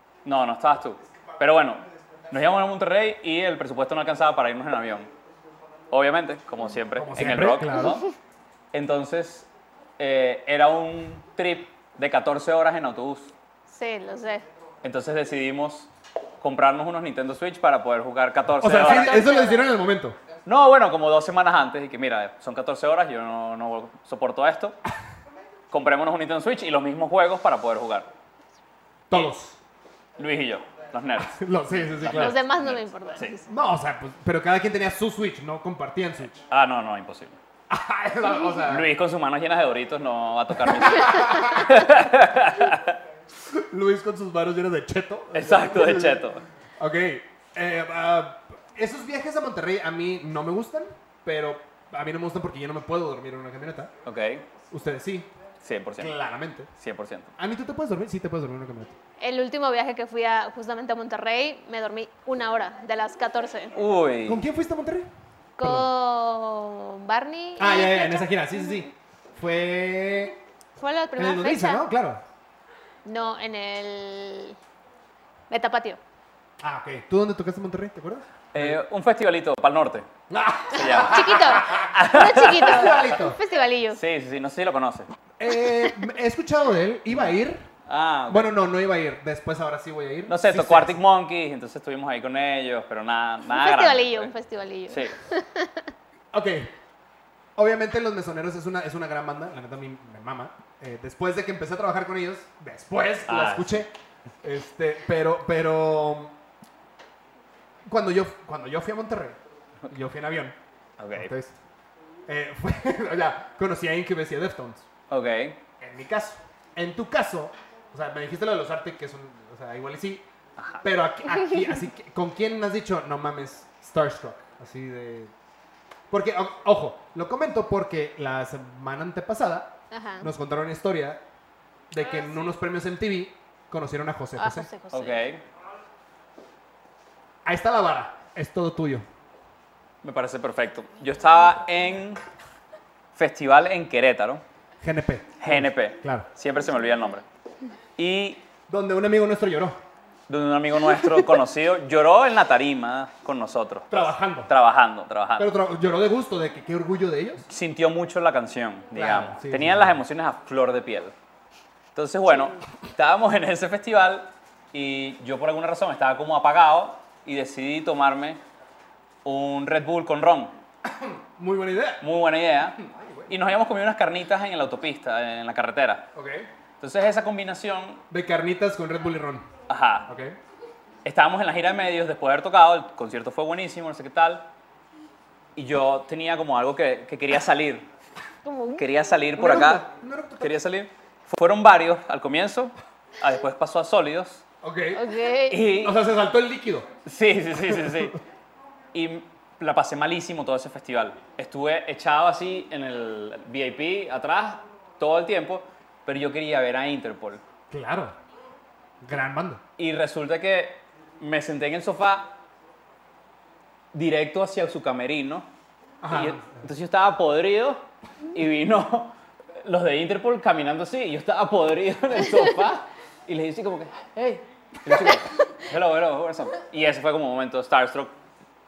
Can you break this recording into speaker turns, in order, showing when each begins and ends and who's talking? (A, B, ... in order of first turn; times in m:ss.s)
0:00.2-0:05.1 A
0:05.9-0:08.1 A
0:07.0-0:07.9 B
0:08.7-0:13.3 A
0:13.7-0:14.5 C
0:14.8-0:19.2 A
0:18.6-0:20.2 B
0:18.8-0:19.7 C
0:20.4-0:24.8 A
0:25.7-0:28.1 A
0:29.1-0:29.6 B
0:30.2-0:31.4 A
0:31.3-0:32.4 B
0:32.0-0:33.4 A
0:32.0-0:33.5 C
0:33.5-0:36.4 B
0:36.5-0:37.4 A
0:37.7-0:38.9 B
0:38.6-0:43.0 A
0:40.6-0:41.7 B
0:43.5-0:46.2 B
0:45.3-0:46.4 A
0:46.8-0:53.9 B
0:54.0-0:54.4 A
0:54.7-0:55.3 B
0:55.6-0:56.1 A
0:56.0-0:56.7 B
0:56.8-0:57.3 A
0:57.4-0:59.0 B
0:59.2-1:03.8 C
1:03.7-1:04.4 A
1:04.3-1:05.1 B
1:05.6-1:08.8 C
1:05.6-1:05.9 B
1:07.6-1:10.4 B
1:10.8-1:11.8 C
1:11.2-1:12.2 B
1:13.0-1:14.6 C
1:15.5-1:16.0 C
1:16.6-1:18.8 B
1:18.5-1:20.1 A
1:20.3-1:22.0 B
1:20.7-1:23.1 A
1:20.8-1:24.0 C
1:22.6-1:23.4 B
1:23.9-1:25.1 A
1:25.4-1:27.7 B
1:27.8-1:28.5 A
1:28.3-1:31.0 B
1:30.3-1:34.3 A
1:33.4-1:35.8 C
1:34.9-1:35.1 A
1:36.3-1:36.7 B
1:37.6-1:43.9 B
1:43.3-1:43.8 A
1:44.4-1:46.3 B
1:47.8-1:50.6 B
1:51.0-1:51.3 A
1:51.1-1:51.6 B
1:52.3-1:54.8 B
1:55.1-1:55.6 A
1:55.8-2:00.2 B
2:00.6-2:00.8 A
2:00.8-2:05.3 B
2:06.1-2:11.2 B
2:09.9-2:10.3 C
2:11.9-2:14.7 B
2:14.4-2:15.2 C
2:14.9-2:15.4 A
2:17.4-2:19.0 B
2:20.0-2:22.2 A
2:23.2-2:24.4 A
2:24.8-2:26.3 B
2:25.4-2:27.2 A
2:28.0-2:28.4 A
2:28.7-2:29.8 B
2:30.3-2:35.5 A
2:33.9-2:34.5 B
2:35.4-2:37.5 B
2:37.5-2:41.1 A
2:38.9-2:40.0 B
2:41.9-2:48.4 A
2:49.2-2:50.6 A
2:50.8-2:52.1 B
2:52.0-2:52.8 A
2:52.8-2:53.3 B
2:53.3-2:56.1 A
2:56.1-2:56.5 B
2:56.8-2:58.0 A
2:58.1-2:59.5 B
2:59.7-3:00.1 A
3:00.1-3:00.4 B
3:01.0-3:04.5 A
3:05.6-3:07.9 A
3:08.4-3:08.8 C
3:08.8-3:09.9 A
3:09.4-3:10.6 B
3:10.4-3:14.4 A
3:14.6-3:15.1 B
3:14.9-3:15.7 C
3:15.5-3:15.9 A
3:15.7-3:16.9 B
3:17.0-3:18.2 A
3:17.6-3:18.2 B
3:18.9-3:27.4 A
3:27.7-3:28.1 B
3:29.0-3:29.6 B
3:29.8-3:32.3 A
3:33.9-3:35.5 A
3:36.0-3:36.6 B
3:36.1-3:48.2 A